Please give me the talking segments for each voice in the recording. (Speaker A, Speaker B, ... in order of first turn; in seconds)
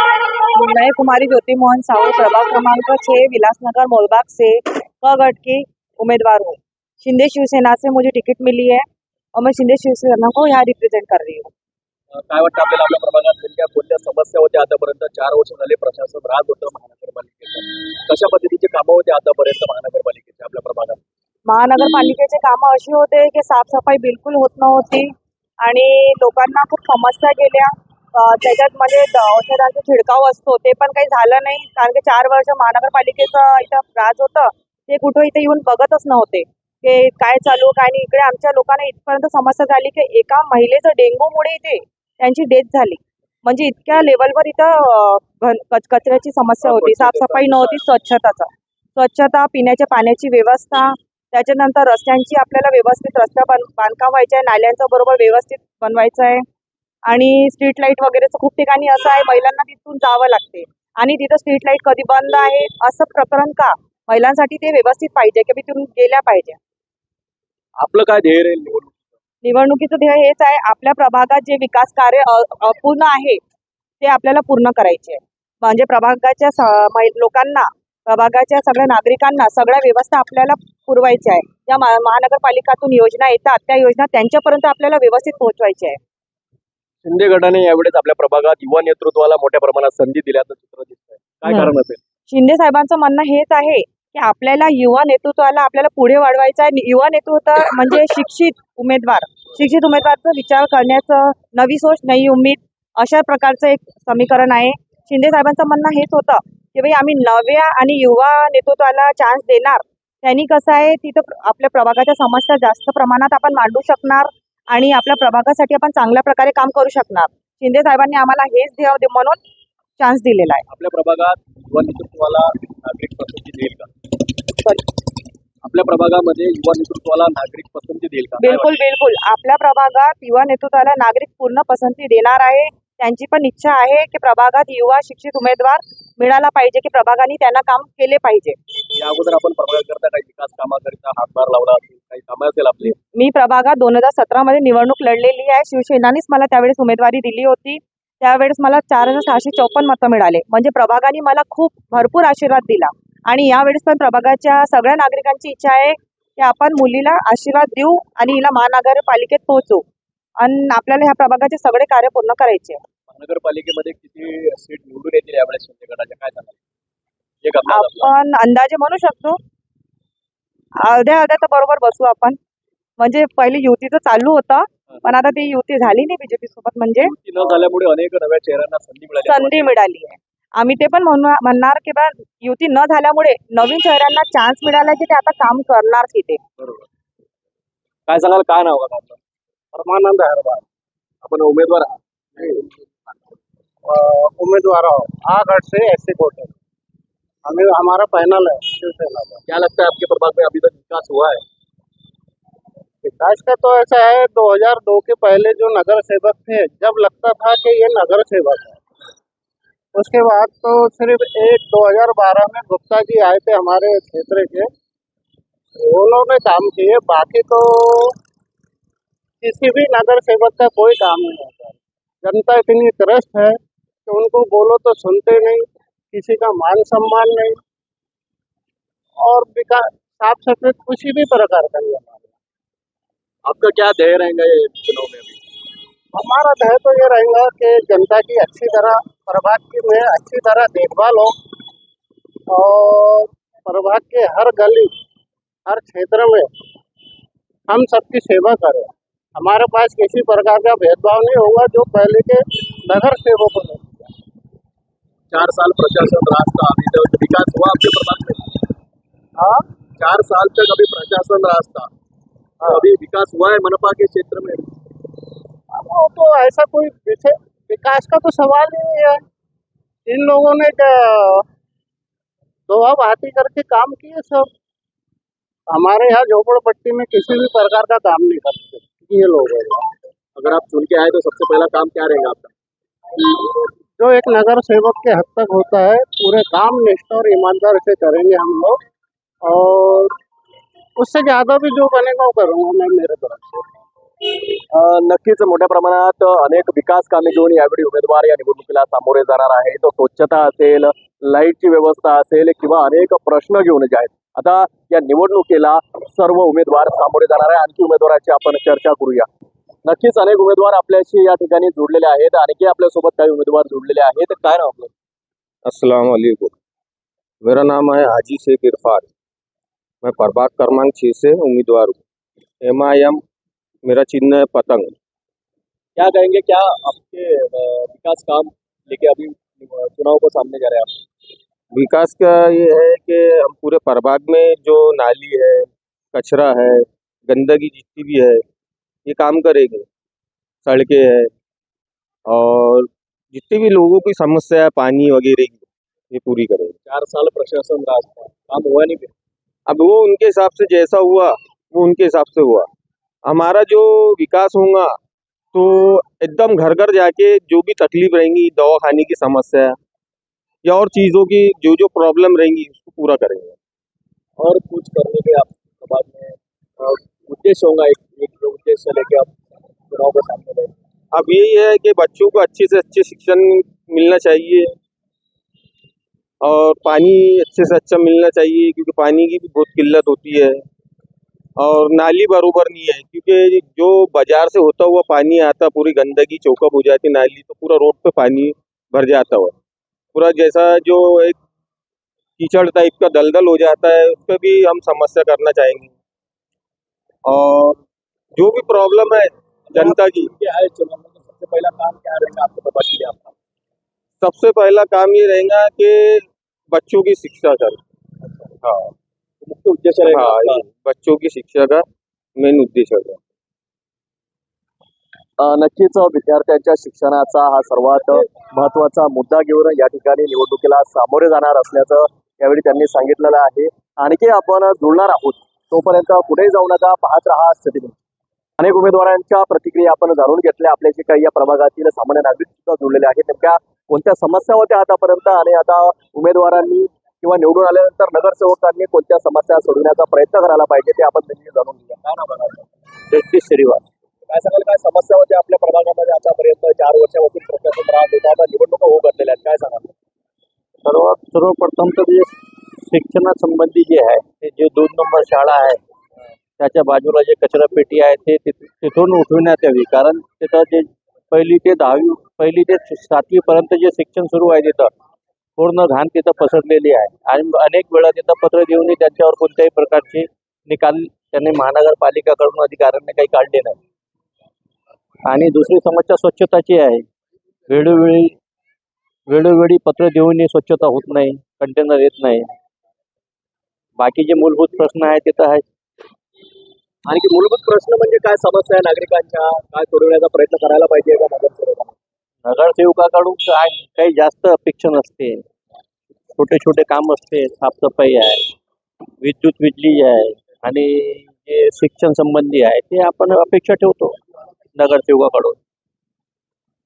Speaker A: 0.5-11.5, 21.5-25.1, 25.6-56.4, 57.1-66.6, 69.4-73.4, 74.0-86.0, 92.3-119.4, 120.0-120.7, 128.4-138.6, 142.9-159.8, 160.4-162.8, 167.7-169.4, 170.8-172.4, 173.0-177.1, 179.2-186.4
Speaker B: 12.1-21.0, 46.6-47.8, 67.8-68.9, 87.0-92.0, 120.7-123.9, 125.6-128.7, 138.9-142.9, 163.1-166.6, 167.4-168.1, 177.0-179.7, 188.1-189.2, 191.2-192.0, 199.5-201.4, 233.4-235.4, 255.3-258.4, 260.0-261.9, 262.6-264.7, 280.4-282.5, 294.7-309.3, 309.9-314.9, 326.0-331.0, 346.9-349.1, 364.4-369.3, 369.9-370.7, 399.7-403.3, 409.4-410.6, 415.4-427.9, 428.6-442.7, 444.3-449.9, 487.1-491.9
Speaker C: 189.7-190.6, 193.8-196.5, 197.4-199.4, 203.0-208.8, 209.9-214.7, 215.8-218.2, 219.4-227.6, 229.2-232.3, 236.1-241.4, 242.5-244.9, 245.7-246.5, 247.7-254.1, 259.4-259.6, 265.7-269.2, 270.1-271.5, 272.7-274.5, 275.7-279.9, 283.1-288.8, 289.4-290.1, 291.0-293.7
Speaker D: 315.6-316.5, 317.4-319.1, 320.0-322.0, 322.6-323.2, 323.8-324.9, 331.7-338.4, 339.1-339.9, 340.6-341.3, 342.3-346.8, 349.7-352.7, 353.2-355.0, 355.5-359.8, 360.6-363.6, 371.1-374.8, 376.4-380.6, 381.6-389.5, 390.1-391.4, 392.4-395.9, 397.2-397.8, 398.4-400.3, 404.2-407.8, 408.6-408.9, 410.0-411.9, 412.4-413.2
Speaker E: 443.1-443.9, 450.9-455.8, 456.6-464.9, 465.6-473.8, 475.2-477.1, 477.7-478.4, 479.3-482.5, 484.0-485.6, 492.4-495.4, 496.4-498.5, 499.2-504.2, 504.8-505.6